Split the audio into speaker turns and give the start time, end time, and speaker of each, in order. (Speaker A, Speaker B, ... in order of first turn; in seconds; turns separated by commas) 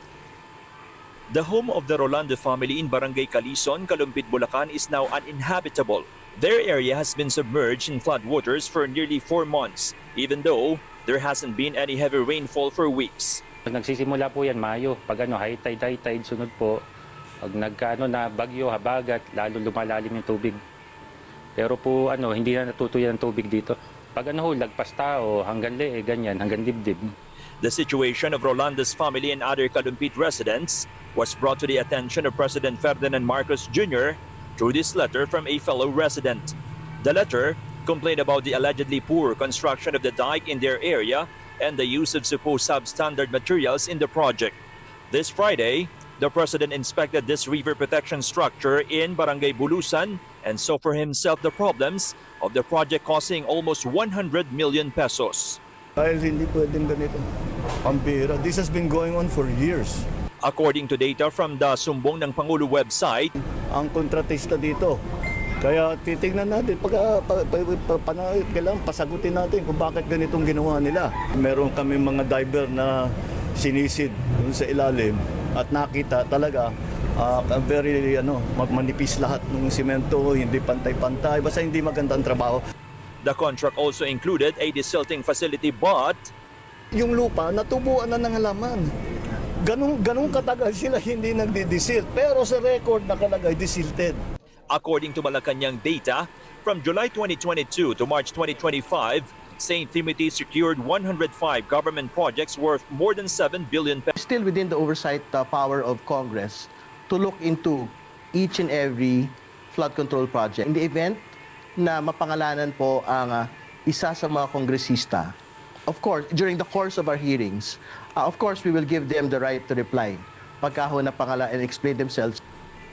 Speaker A: 1.3-13.4, Speaker B: 13.7-16.8, Speaker B: 17.4-20.6, Speaker B: 21.6-27.1, Speaker A: 27.6-44.6, Speaker A: 45.1-55.6, Speaker C: 56.0-57.2, Speaker C: 57.8-60.0, Speaker A: 60.4-63.3, Speaker C: 63.7-65.0, Speaker C: 65.6-82.6, Speaker A: 83.2-86.3, Speaker C: 86.9-88.9, Speaker C: 89.6-94.2, Speaker A: 94.7-104.1, Speaker D: 104.1-115.3, Speaker D: 115.9-122.4